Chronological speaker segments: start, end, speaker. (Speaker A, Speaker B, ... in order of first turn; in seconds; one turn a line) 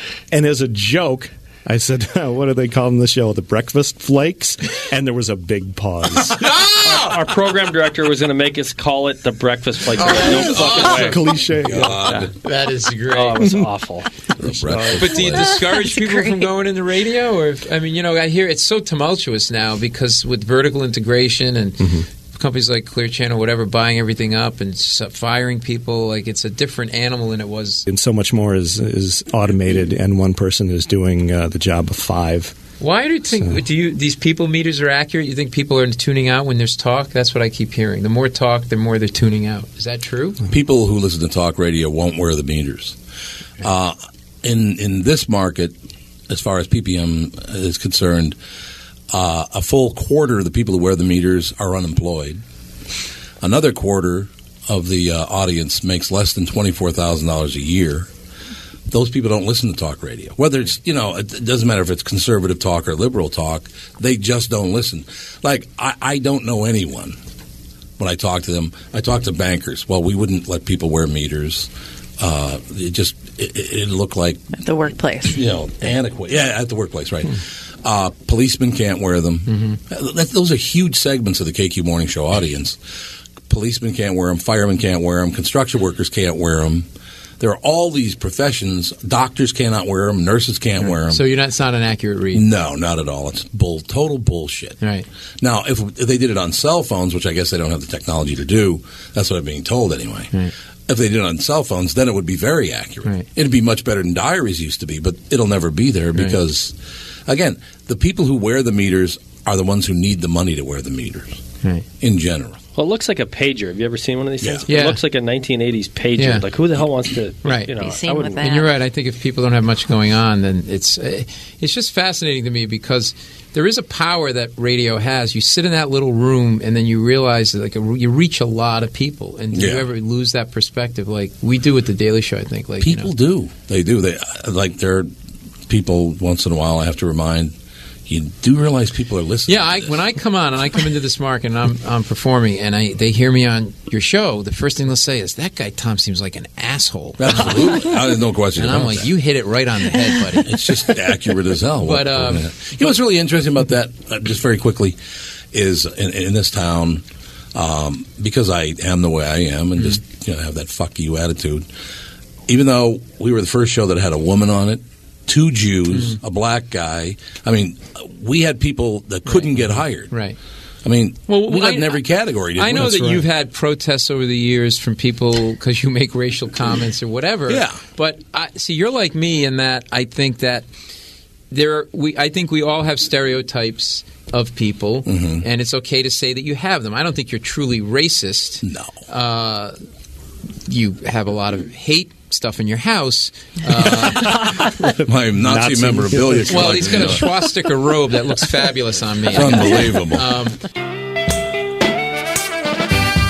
Speaker A: 0.3-6.4
Speaker B: 6.8-11.2
Speaker C: 10.0-11.2
Speaker D: 10.4-11.0
Speaker A: 10.5-12.0
Speaker D: 11.6-12.3
Speaker B: 12.1-12.3
Speaker C: 12.3-13.6
Speaker B: 13.1-14.1
Speaker D: 14.4-15.5
Speaker A: 14.4-15.1
Speaker C: 14.8-27.9
Speaker E: 15.1-16.5
Speaker A: 21.8-22.1
Speaker A: 27.9-32.6
Speaker C: 32.8-40.4
Speaker D: 40.5-43.0
Speaker D: 43.6-45.7
Speaker D: 46.3-48.4
Speaker D: 49.1-52.4
Speaker D: 53.4-58.1
Speaker D: 58.9-67.2
Speaker D: 68.0-74.6
Speaker E: 74.6-75.4
Speaker D: 75.2-82.8
Speaker C: 79.5-79.8
Speaker D: 83.5-86.9
Speaker D: 87.4-91.2
Speaker C: 90.8-92.5
Speaker D: 92.3-94.8
Speaker C: 94.8-95.1
Speaker D: 95.4-100.3
Speaker D: 100.9-106.8
Speaker C: 106.1-106.4
Speaker D: 107.3-111.4
Speaker D: 112.0-112.6
Speaker B: 112.8-118.5
Speaker D: 114.4-114.7
Speaker C: 114.7-115.0
Speaker C: 116.2-116.5
Speaker C: 117.4-117.8
Speaker E: 117.7-118.8
Speaker C: 118.4-133.1
Speaker D: 129.5-129.9
Speaker D: 132.8-135.1
Speaker D: 135.7-137.6
Speaker D: 138.1-139.9
Speaker C: 139.5-148.0
Speaker D: 147.2-149.1
Speaker C: 148.6-150.6
Speaker D: 150.4-155.0
Speaker C: 151.8-152.5
Speaker D: 155.5-161.7
Speaker D: 162.5-170.1
Speaker C: 165.9-166.2
Speaker C: 169.3-170.4
Speaker D: 170.8-173.2
Speaker C: 171.3-172.0
Speaker C: 172.6-180.7
Speaker A: 172.8-173.2
Speaker D: 177.5-177.8
Speaker C: 181.5-189.8
Speaker D: 185.1-185.4
Speaker D: 188.6-188.9
Speaker C: 190.7-194.6
Speaker A: 194.2-197.4
Speaker D: 194.5-197.3
Speaker C: 196.5-200.6
Speaker D: 199.3-200.3